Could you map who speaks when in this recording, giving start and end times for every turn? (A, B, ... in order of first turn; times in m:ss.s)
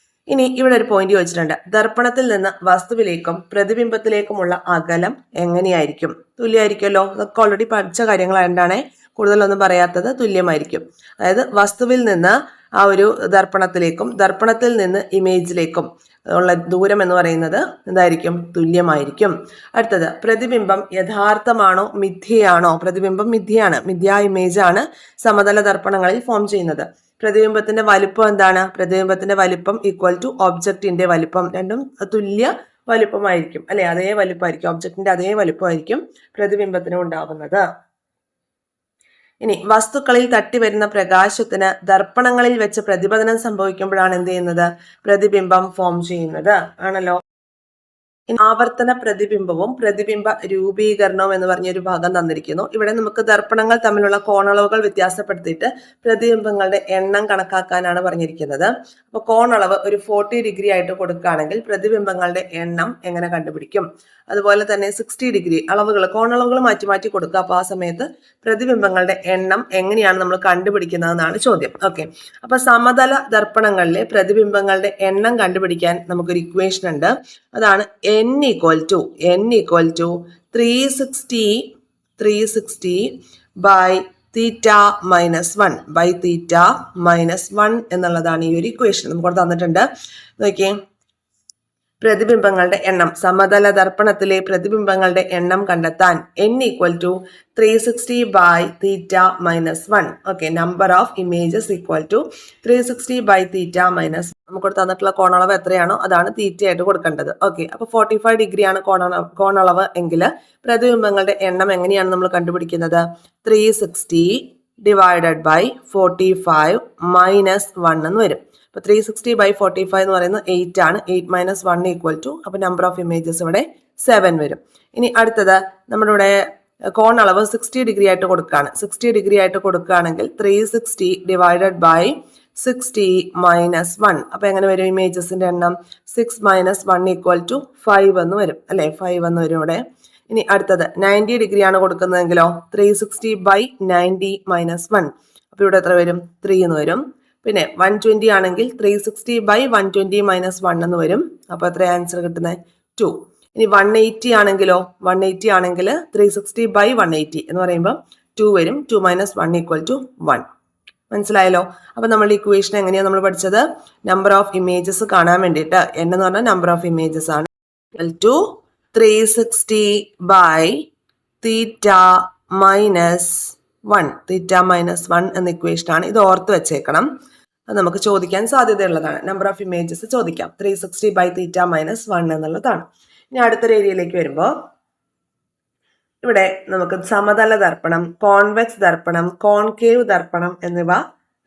0:00.3-0:37.6 A
0:39.4-0:47.2 A
0:48.3-1:29.8 A
1:30.4-1:30.7 A
1:32.0-2:06.4 A
2:06.9-2:40.4 A
2:41.1-2:50.8 A
2:51.4-2:57.1 A
2:57.7-3:04.5 A
3:06.2-3:11.0 A